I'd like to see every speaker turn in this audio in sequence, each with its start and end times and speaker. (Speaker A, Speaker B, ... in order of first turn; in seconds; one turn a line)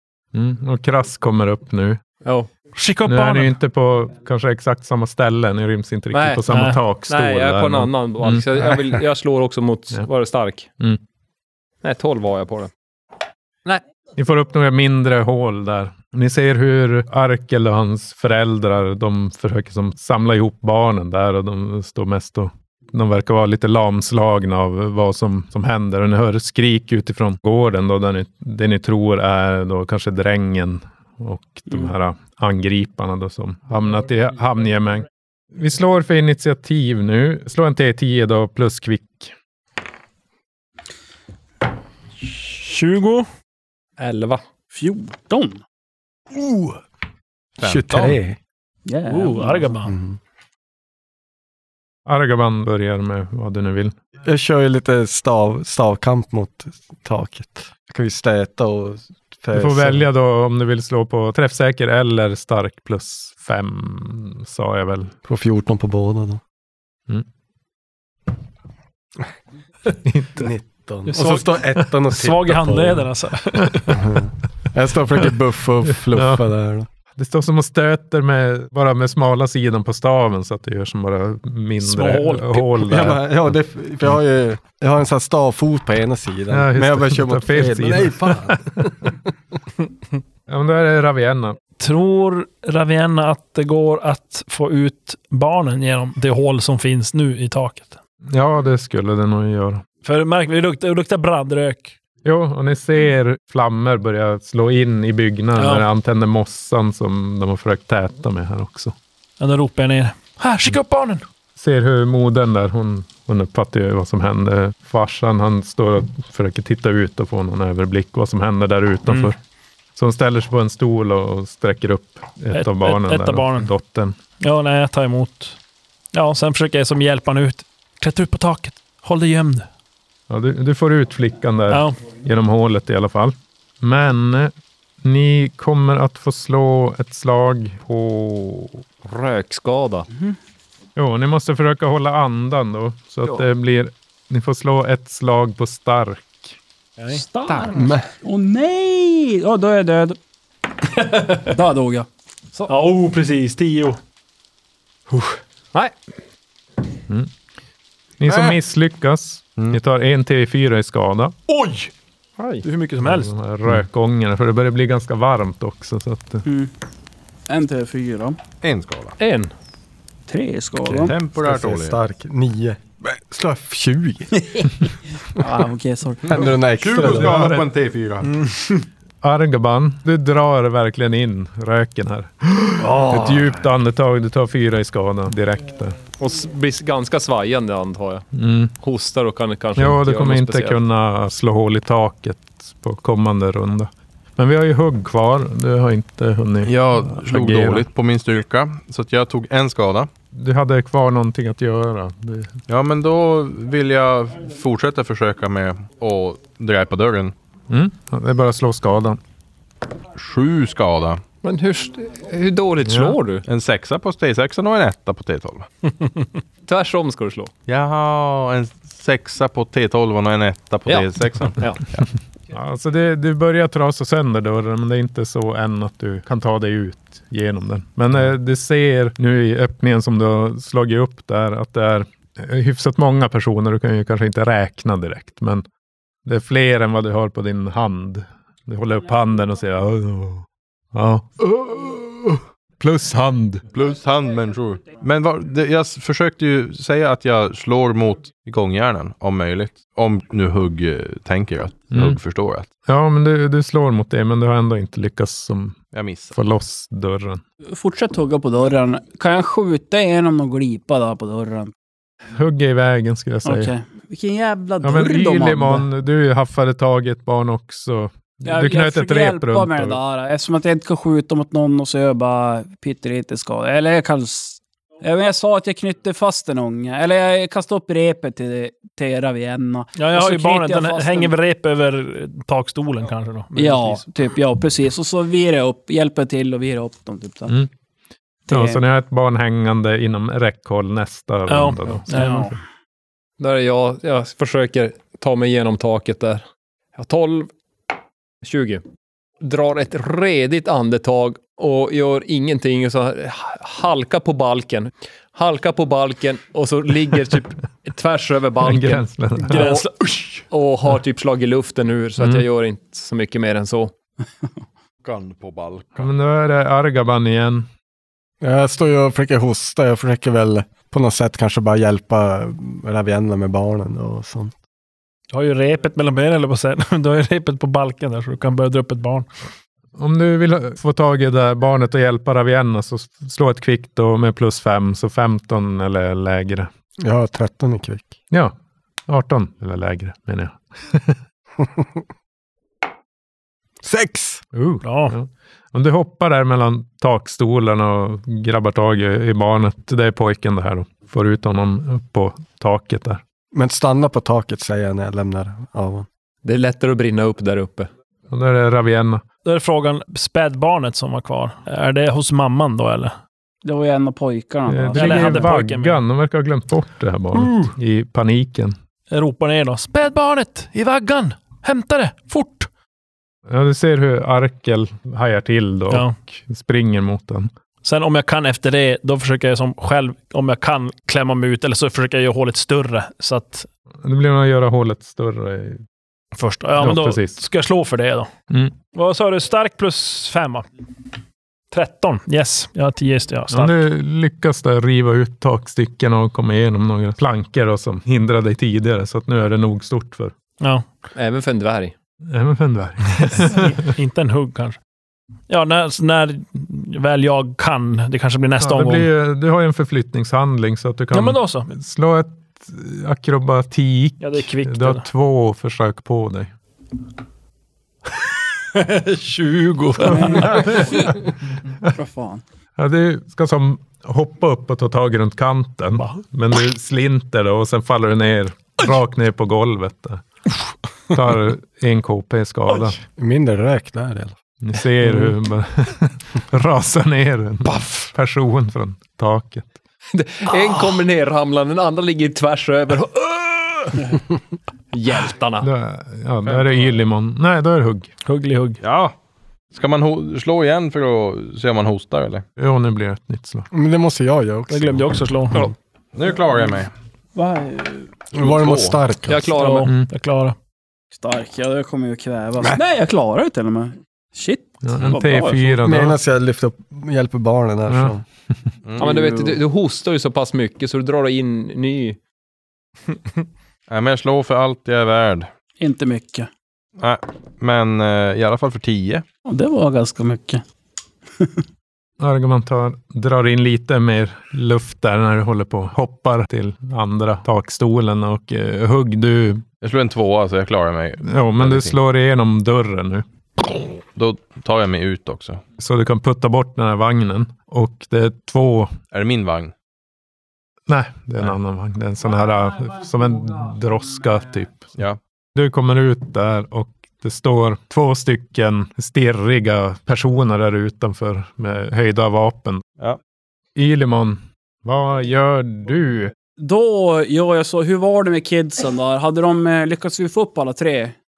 Speaker A: 0.3-2.0
Speaker B: 2.2-2.5
Speaker C: 2.8-3.6
Speaker A: 3.0-8.4
Speaker B: 6.1-6.4
Speaker C: 6.5-6.8
Speaker B: 7.1-10.7
Speaker B: 11.8-12.7
Speaker A: 14.2-39.3
Speaker C: 42.2-43.3
Speaker B: 44.0-44.4
Speaker D: 44.7-45.6
Speaker E: 47.6-48.2
Speaker F: 47.6-48.4
Speaker D: 48.9-49.7
Speaker C: 49.1-50.0
Speaker F: 49.9-50.2
Speaker A: 52.1-54.0
Speaker F: 54.2-60.1
Speaker A: 59.5-65.1
Speaker F: 65.3-66.4
Speaker A: 70.0-70.5
Speaker F: 70.4-73.1
Speaker C: 71.1-74.1
Speaker F: 73.9-76.9
Speaker A: 76.1-76.5
Speaker A: 77.2-83.3
Speaker C: 81.8-82.9
Speaker F: 82.9-89.1
Speaker A: 86.5-88.9
Speaker A: 90.5-91.6
Speaker C: 91.8-98.0
Speaker A: 98.3-99.8
Speaker C: 100.0-102.0
Speaker A: 102.2-109.0
Speaker C: 105.5-105.9
Speaker C: 109.4-111.2
Speaker A: 111.6-119.4
Speaker A: 120.0-124.2
Speaker C: 122.5-123.7
Speaker C: 124.4-125.6
Speaker C: 126.1-129.7
Speaker A: 130.3-138.8
Speaker C: 131.7-132.0
Speaker B: 139.0-140.1
Speaker A: 141.0-146.5
Speaker B: 147.0-147.7
Speaker D: 147.1-150.2
Speaker F: 147.7-148.1
Speaker D: 151.4-152.1
Speaker C: 152.7-154.0
Speaker A: 158.2-161.4
Speaker E: 158.3-158.6
Speaker C: 161.5-161.9
Speaker B: 162.4-162.7
Speaker C: 162.6-163.3
Speaker A: 163.0-166.4
Speaker D: 166.4-166.7
Speaker D: 167.5-168.4
Speaker E: 168.6-169.2
Speaker B: 169.2-169.5
Speaker D: 170.3-171.2
Speaker E: 170.9-172.0
Speaker F: 171.4-174.7
Speaker D: 175.4-176.4
Speaker F: 176.2-177.5
Speaker E: 176.8-178.3
Speaker A: 177.0-177.7
Speaker A: 179.2-186.0
Speaker E: 183.0-183.4
Speaker B: 186.2-188.3
Speaker A: 188.3-188.7
Speaker B: 188.8-190.8
Speaker A: 189.8-197.8
Speaker E: 196.7-200.1
Speaker A: 200.3-202.6
Speaker E: 202.7-207.3
Speaker A: 207.7-209.2
Speaker E: 210.2-211.2
Speaker B: 211.4-213.4
Speaker A: 212.8-213.2
Speaker E: 213.5-215.7
Speaker B: 216.7-217.5
Speaker E: 217.7-222.1
Speaker B: 220.9-221.8
Speaker A: 222.5-235.7
Speaker A: 236.2-243.6
Speaker E: 243.7-252.7
Speaker A: 251.9-252.2
Speaker A: 252.9-255.8
Speaker E: 255.9-256.4
Speaker A: 256.3-257.4
Speaker D: 257.7-261.7
Speaker A: 262.3-263.7
Speaker D: 263.4-265.9
Speaker A: 264.8-270.0
Speaker D: 268.4-281.3
Speaker C: 279.9-284.0
Speaker D: 283.6-287.6
Speaker D: 288.5-288.8
Speaker A: 288.5-292.1
Speaker C: 291.5-292.5
Speaker D: 292.1-292.6
Speaker B: 293.4-296.4
Speaker B: 297.0-297.5
Speaker B: 298.4-298.8
Speaker B: 299.4-309.9
Speaker A: 308.6-309.7
Speaker C: 309.5-310.4
Speaker B: 310.5-313.9
Speaker A: 312.2-312.4
Speaker E: 315.0-316.1
Speaker A: 316.0-317.7
Speaker F: 318.4-324.6
Speaker C: 325.3-329.3
Speaker A: 330.0-336.7
Speaker F: 337.0-338.1
Speaker A: 338.3-338.6
Speaker A: 339.1-341.2
Speaker F: 343.8-344.4
Speaker A: 344.5-353.2
Speaker C: 344.8-345.1
Speaker F: 353.5-356.1
Speaker B: 356.4-357.9
Speaker A: 358.3-359.2
Speaker C: 359.4-363.1
Speaker D: 363.6-365.5
Speaker A: 364.7-368.8
Speaker C: 364.9-366.0
Speaker C: 367.4-367.7
Speaker C: 369.1-372.7
Speaker A: 373.5-377.5
Speaker C: 375.9-376.2
Speaker C: 377.8-383.7
Speaker A: 384.0-385.8
Speaker C: 386.4-388.3
Speaker A: 386.8-387.4
Speaker A: 388.5-388.8
Speaker C: 388.9-390.7
Speaker C: 391.7-393.8
Speaker A: 393.5-400.3
Speaker C: 400.6-400.9
Speaker B: 401.1-401.9
Speaker A: 402.3-403.8
Speaker C: 403.4-404.8
Speaker C: 405.5-409.1
Speaker A: 408.6-416.5
Speaker C: 411.1-411.7
Speaker C: 414.2-415.1
Speaker C: 418.8-420.8
Speaker D: 420.0-421.1
Speaker A: 420.4-420.9
Speaker D: 421.9-422.4
Speaker A: 422.8-430.2
Speaker A: 431.1-433.0
Speaker F: 433.1-434.4
Speaker A: 434.6-439.7
Speaker C: 435.1-435.3
Speaker B: 440.1-444.2
Speaker B: 444.9-445.7
Speaker A: 445.6-448.1
Speaker C: 448.2-448.8
Speaker E: 448.8-449.1
Speaker E: 449.7-452.5
Speaker A: 452.6-453.7
Speaker F: 453.7-455.6
Speaker C: 454.7-455.7
Speaker E: 456.1-456.9
Speaker D: 457.4-458.1
Speaker F: 458.3-459.5
Speaker E: 458.4-459.0
Speaker B: 459.3-459.9
Speaker C: 459.5-460.6
Speaker D: 461.1-465.7
Speaker A: 464.8-466.2
Speaker F: 465.8-468.2
Speaker A: 467.9-468.1
Speaker E: 468.9-469.2
Speaker B: 469.0-472.2
Speaker E: 473.9-475.5
Speaker D: 475.8-476.5
Speaker E: 477.0-479.2
Speaker D: 479.5-480.6
Speaker A: 482.2-489.6
Speaker E: 489.8-492.0
Speaker A: 491.2-493.2
Speaker E: 494.1-495.6
Speaker A: 495.8-499.0
Speaker E: 499.1-499.7
Speaker A: 500.9-504.9
Speaker A: 505.6-512.8
Speaker A: 513.8-516.3
Speaker D: 516.6-521.1